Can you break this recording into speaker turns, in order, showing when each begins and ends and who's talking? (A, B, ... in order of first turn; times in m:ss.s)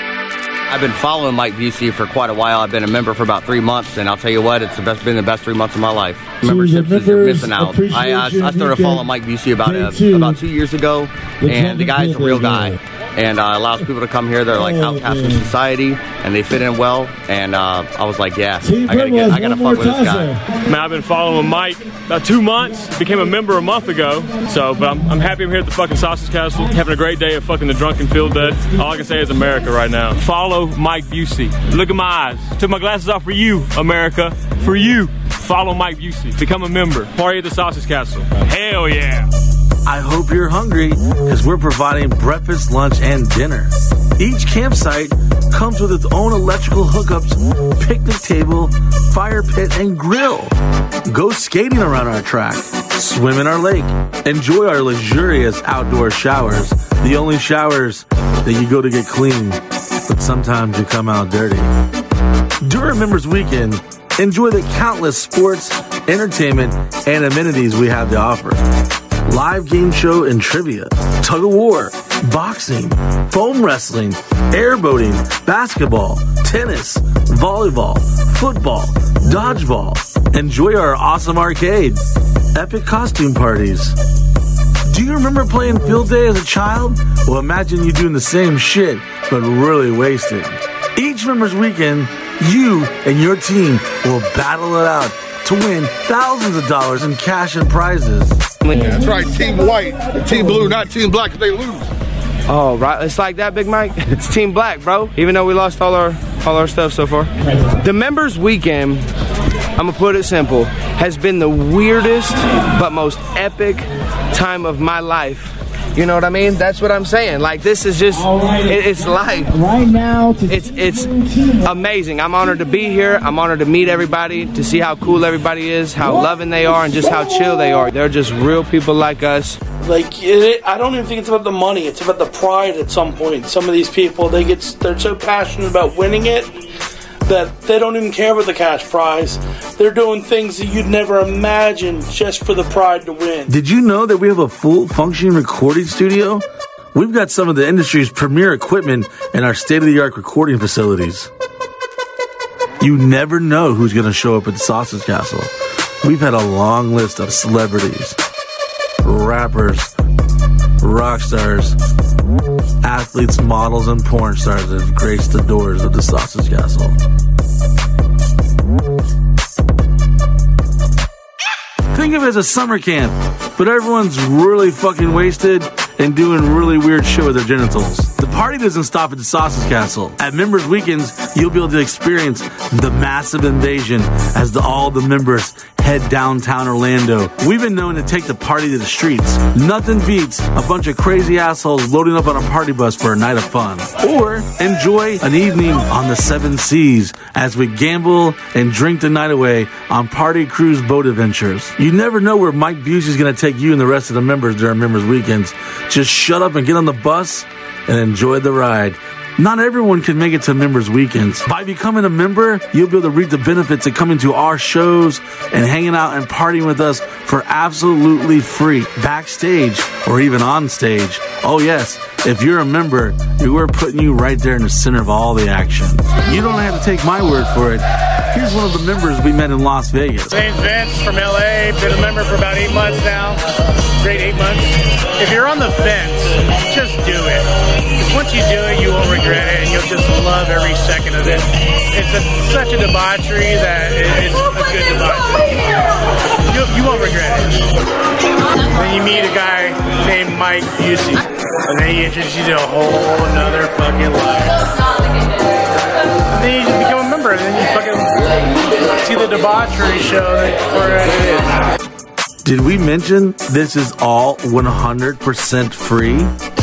0:00.7-0:20.4 A
0:06.6-0:08.4 B
0:20.6-0:39.3 C
0:39.8-0:50.5 B
0:51.0-1:01.7 B
1:02.6-1:08.6 B
1:09.2-1:22.0 B
1:22.5-1:24.0 B
1:24.8-1:38.4 B
1:38.6-1:39.0 D
1:38.8-1:41.9 E
1:42.5-1:49.0 D
1:49.8-2:09.6 D
2:09.8-2:16.5 F
2:17.2-2:23.5 F
2:23.5-2:31.3 B
2:32.8-2:35.5 B
2:36.0-2:38.2 B
2:39.0-2:39.9 B
2:40.8-2:41.8 B
2:42.8-2:46.9 B
2:51.9-3:50.3 B
3:50.3-4:05.8 G
4:06.4-4:07.7 G
4:08.6-4:14.7 G
4:16.3-4:21.7 G
4:22.4-4:26.3 B